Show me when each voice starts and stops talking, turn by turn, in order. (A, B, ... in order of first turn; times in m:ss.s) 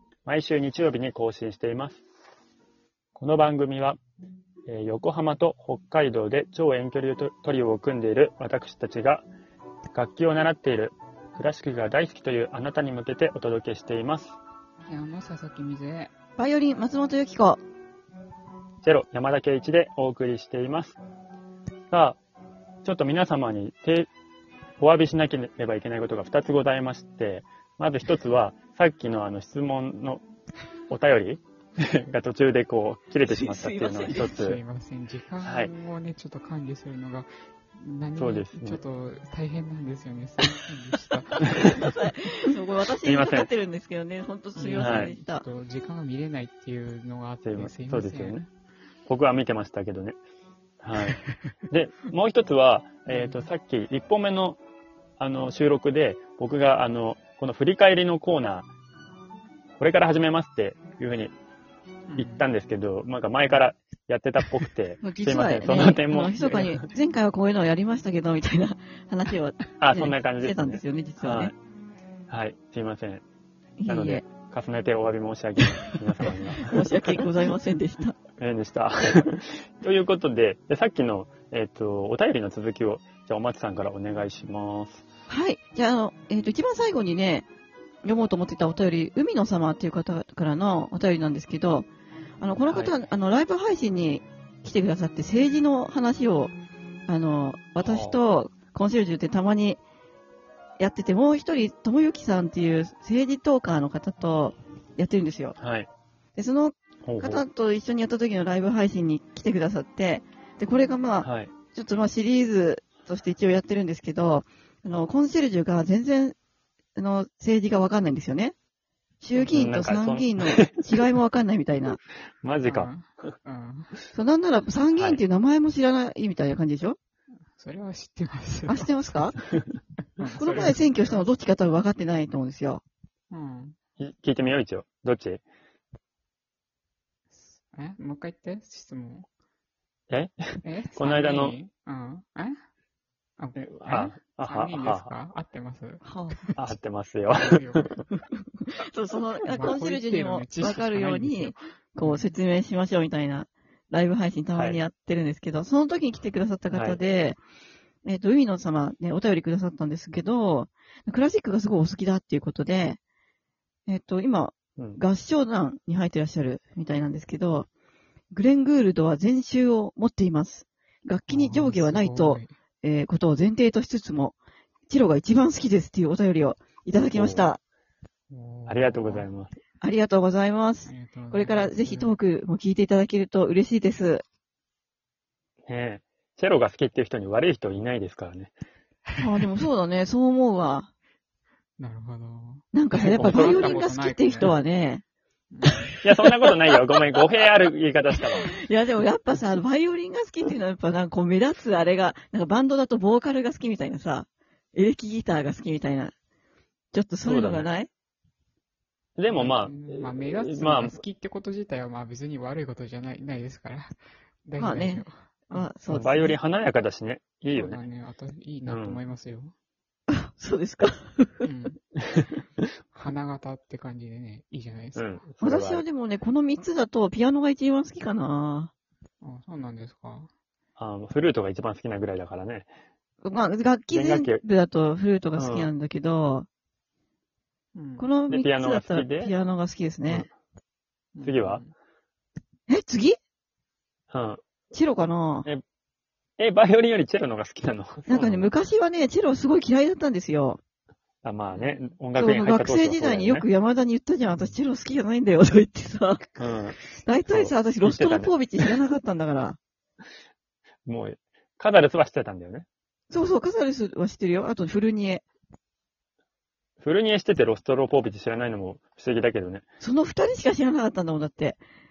0:00.2-0:02.0 A
0:03.2-0:04.0 A
0:04.7-0:09.2 A
0:09.9-0:14.4 A
0:14.9-0:16.1 B
0:16.4-0:17.6 C
0:18.8-0:21.0 A
0:21.9-0:22.2 A
0:22.8-0:24.1 A
0:24.8-0:30.2 A
0:30.9-0:34.6 A
0:33.3-0:34.4 C
0:34.1-0:41.9 B
0:35.4-0:35.7 A
0:38.2-0:38.8 A
0:41.5-0:45.4 C
0:43.0-0:43.5 A
0:44.6-0:48.5 B
0:44.8-0:45.1 A
0:47.4-0:48.4 A
0:49.1-0:50.2 A
0:50.8-0:54.6 A
0:51.0-0:51.3 B
0:53.1-0:53.5 B
0:55.2-0:58.7 A
0:59.8-1:01.3 A
1:02.1-1:02.4 B
1:02.2-1:06.7 A
1:05.0-1:11.5 C
1:06.3-1:06.8 B
1:09.8-1:11.6 A
1:12.3-1:13.2 A
1:13.8-1:14.2 C
1:13.9-1:17.2 A
1:16.2-1:18.2 C
1:18.4-1:25.0 A
1:25.3-1:27.4 C
1:28.0-1:31.9 C
1:32.4-1:36.5 C
1:37.1-1:39.8 C
1:37.8-1:38.2 A
1:40.8-1:45.6 C
1:45.6-1:45.9 A
1:46.4-1:56.4 C
1:47.0-1:47.4 A
1:51.2-1:51.5 A
1:57.0-1:58.6 C
1:59.2-2:02.0 C
1:59.3-2:00.9 A
2:02.4-2:02.9 A
2:02.6-2:03.9 B
2:04.1-2:07.0 C
2:05.0-2:05.2 A
2:07.6-2:09.6 B
2:08.7-2:09.3 C
2:10.2-2:11.3 B
2:10.4-2:12.8 C
2:13.3-2:13.8 B
2:14.0-2:15.4 A
2:17.3-2:19.3 B
2:20.1-2:21.6 A
2:20.6-2:22.6 B
2:23.4-2:26.0 B
2:23.8-2:25.1 A
2:26.0-2:26.6 C
2:26.6-2:27.9 A
2:27.3-2:28.0 B
2:28.8-2:37.4 C
2:29.5-2:32.3 B
2:34.6-2:34.8 A
2:36.7-2:37.0 A
2:38.0-2:43.0 C
2:43.9-2:47.7 C
2:48.3-2:54.4 C
2:51.3-2:52.5 B
2:54.9-2:57.6 C
2:57.1-2:57.5 A
2:58.3-2:59.3 B
2:58.7-2:59.5 A
2:59.8-3:04.2 C
3:00.8-3:02.1 B
3:05.7-3:08.5 A
3:09.2-3:10.9 C
3:11.8-3:14.6 B
3:12.7-3:15.0 C
3:13.2-3:13.8 A
3:15.5-3:15.9 B
3:16.0-3:18.5 A
3:18.3-3:26.1 C
3:26.9-3:27.9 C
3:27.2-3:27.7 A
3:29.2-3:31.0 A
3:29.3-3:36.1 B
3:34.6-3:36.4 C
3:35.9-3:37.8 A
3:37.5-3:39.5 B
3:38.7-3:39.0 A
3:40.1-3:41.5 C
3:41.4-3:41.8 B
3:42.2-3:42.6 A
3:42.9-3:45.2 B
3:45.0-3:45.8 A
3:45.4-3:48.7 C
3:49.2-3:50.3 B
3:50.8-3:52.7 A
3:53.2-3:56.5 C
3:53.9-3:54.4 A
3:55.3-3:55.7 A
3:57.8-3:58.1 B
3:58.0-4:00.3 C
3:58.3-3:59.3 A
4:01.2-4:01.7 B
4:01.2-4:01.6 A
4:02.7-4:03.2 C
4:04.1-4:04.4 A
4:04.7-4:05.5 C
4:06.4-4:08.5 A
4:08.1-4:10.6 C
4:11.2-4:13.5 A
4:11.5-4:11.8 B
4:12.1-4:19.6 C
4:16.4-4:16.8 A
4:17.3-4:18.7 A
4:20.9-4:22.7 A
4:23.1-4:25.2 C
4:26.8-4:29.6 A
4:29.8-4:31.6 C